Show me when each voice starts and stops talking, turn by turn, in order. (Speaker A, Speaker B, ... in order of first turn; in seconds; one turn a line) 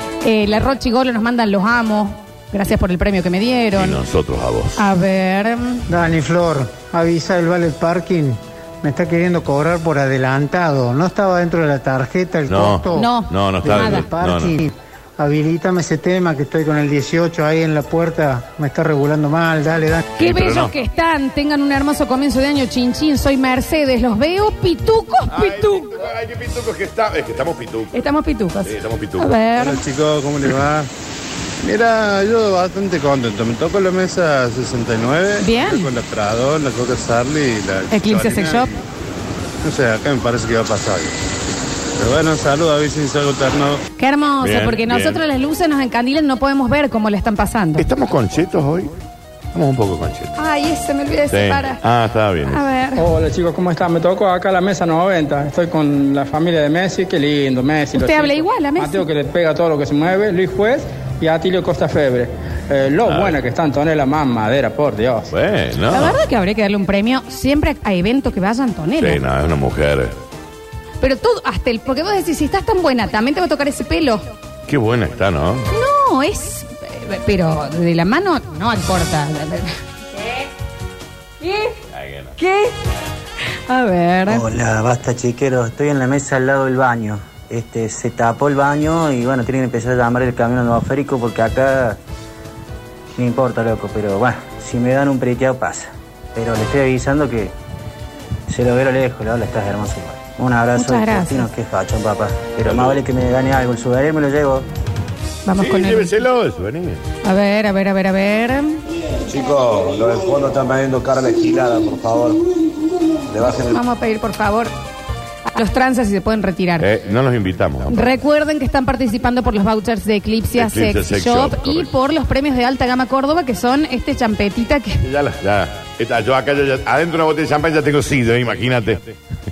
Speaker A: 0.2-4.0
Speaker B: 3.8-4.8
Speaker A: 4.8-5.8
Speaker C: 5.9-13.1
Speaker B: 12.5-14.6
Speaker A: 12.9-14.1
Speaker C: 13.6-20.1
Speaker A: 20.2-25.9
Speaker B: 20.2-20.7
Speaker B: 25.3-28.0
Speaker A: 27.9-29.8
Speaker B: 28.6-29.3
Speaker D: 29.6-30.9
Speaker D: 31.6-38.8
Speaker A: 35.4-35.9
Speaker A: 37.9-38.7
Speaker D: 39.6-41.2
Speaker D: 42.0-43.8
Speaker A: 44.0-47.9
Speaker B: 44.4-45.2
Speaker B: 47.8-48.9
Speaker B: 49.5-50.3
Speaker A: 50.4-51.8
Speaker B: 51.3-52.7
Speaker A: 52.5-53.0
Speaker E: 53.0-65.3
Speaker A: 57.9-59.1
Speaker B: 63.1-63.4
Speaker B: 65.3-66.2
Speaker A: 65.9-69.2
Speaker B: 69.0-70.2
Speaker A: 71.0-74.2
Speaker B: 74.7-75.7
Speaker A: 75.7-79.7
Speaker A: 81.4-81.8
Speaker B: 82.0-82.3
Speaker A: 82.4-82.8
Speaker A: 83.7-84.4
Speaker F: 84.3-92.0
Speaker F: 93.2-97.5
Speaker F: 98.5-104.7
Speaker A: 100.8-101.5
Speaker A: 105.5-106.1
Speaker B: 105.6-107.0
Speaker A: 107.2-108.8
Speaker G: 109.3-112.4
Speaker G: 113.3-113.8
Speaker A: 113.5-114.7
Speaker A: 115.5-116.9
Speaker B: 116.8-118.2
Speaker A: 117.9-125.0
Speaker B: 120.6-121.9
Speaker B: 125.0-129.1